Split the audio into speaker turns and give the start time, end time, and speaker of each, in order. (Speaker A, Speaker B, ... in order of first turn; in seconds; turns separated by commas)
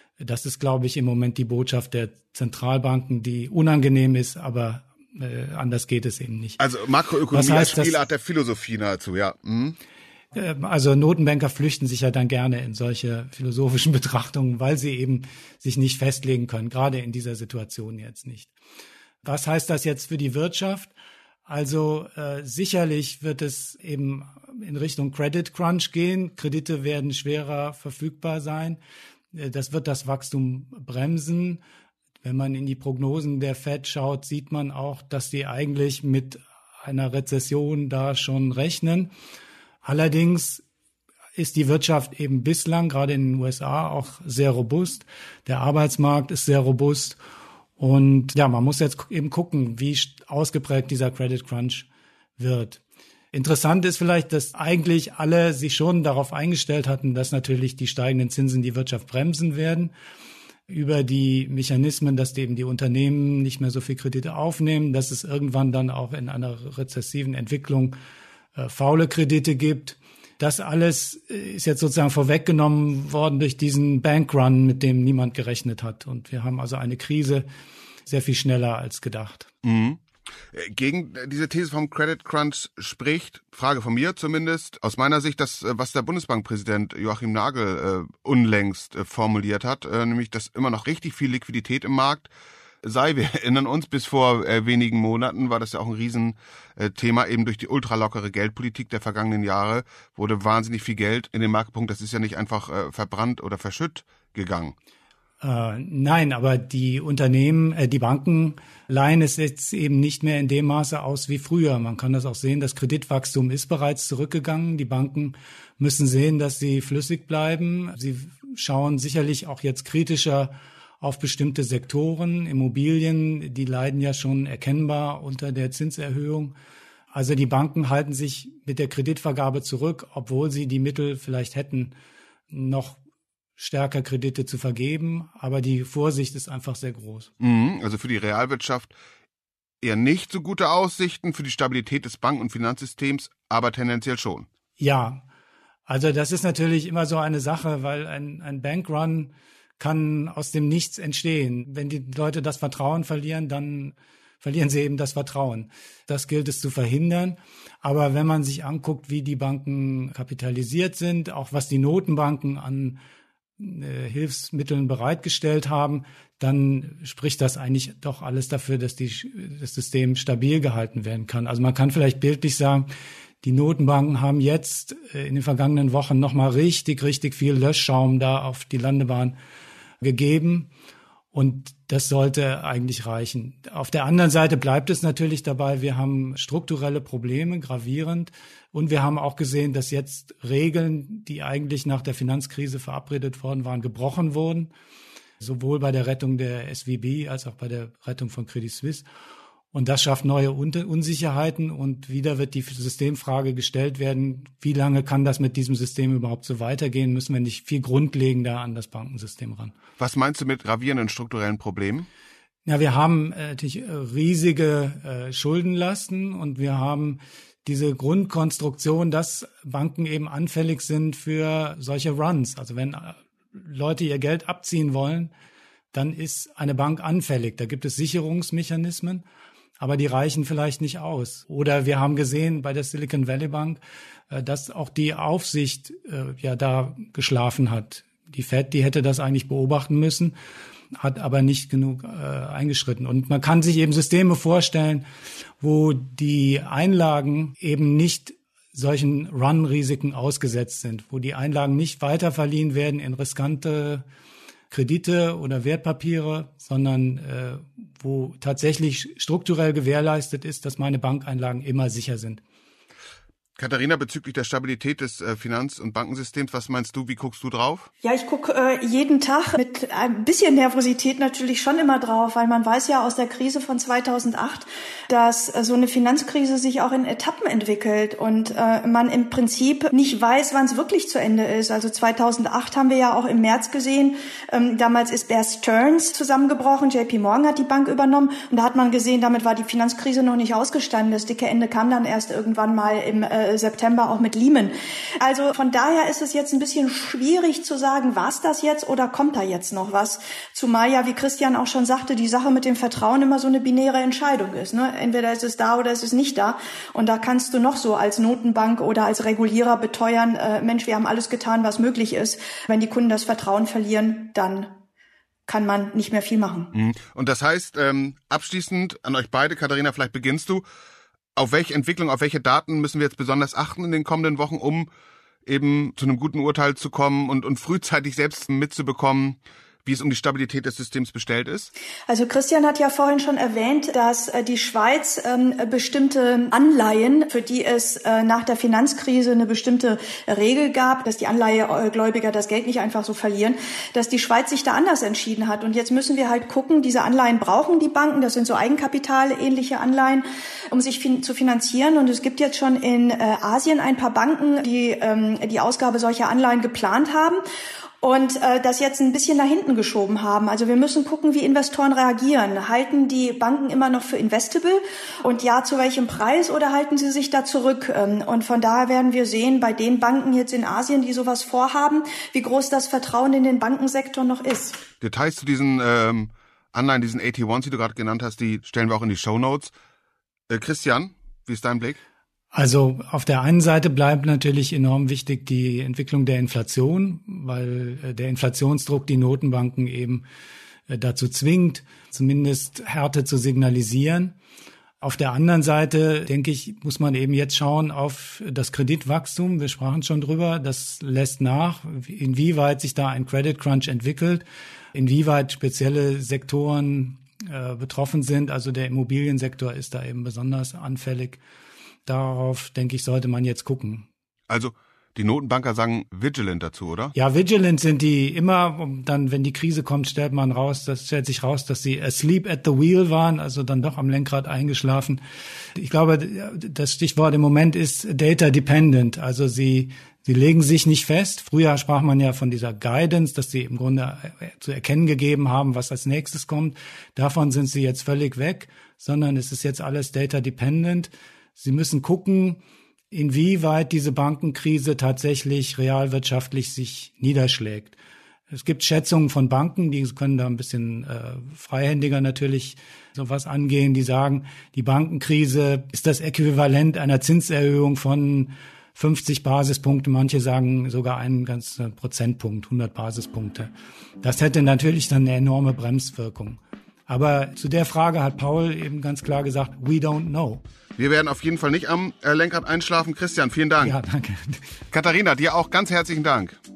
Speaker A: 0.2-6.6, Speaker B: 6.6-9.8, Speaker A: 7.3-7.9, Speaker A: 10.3-18.5, Speaker A: 19.2-20.9, Speaker A: 21.5-28.8, Speaker A: 29.3-31.6, Speaker A: 32.2-39.1, Speaker A: 39.8-40.6, Speaker A: 41.4-47.2, Speaker A: 47.8-51.9, Speaker A: 52.4-52.8, Speaker A: 53.3-59.9, Speaker A: 60.7-68.0, Speaker A: 68.6-77.5, Speaker A: 78.1-79.5, Speaker B: 79.6-92.3, Speaker B: 92.8-104.7, Speaker A: 105.4-126.6, Speaker A: 127.1-131.9, Speaker A: 132.5-133.0, Speaker A: 133.6-137.3, Speaker B: 137.4-138.9, Speaker B: 139.8-144.5, Speaker A: 144.8-145.2, Speaker A: 145.9-163.0, Speaker A: 163.6-172.9, Speaker A: 173.4-179.4, Speaker A: 180.0-180.7, Speaker A: 181.3-194.7, Speaker A: 195.4-199.1, Speaker A: 199.7-209.7, Speaker B: 210.0-212.1, Speaker A: 212.7-225.3, Speaker A: 225.9-229.2, Speaker A: 229.8-240.3, Speaker A: 240.9-245.1, Speaker A: 245.6-254.0, Speaker A: 254.7-262.4, Speaker B: 263.6-267.9, Speaker C: 268.0-314.7, Speaker C: 315.5-316.7, Speaker B: 316.7-320.6, Speaker B: 321.4-324.9, Speaker B: 325.4-331.7, Speaker C: 332.1-357.4, Speaker C: 358.0-374.8, Speaker B: 375.0-379.7, Speaker B: 380.5-382.0, Speaker A: 382.5-390.2, Speaker A: 390.9-394.4, Speaker A: 395.0-411.4, Speaker A: 412.1-414.1, Speaker B: 414.5-417.1, Speaker A: 417.1-425.2, Speaker A: 425.8-442.6, Speaker A: 443.1-447.9, Speaker A: 448.5-463.7, Speaker A: 464.2-470.6, Speaker B: 471.0-473.9, Speaker A: 473.8-474.6, Speaker B: 474.9-476.6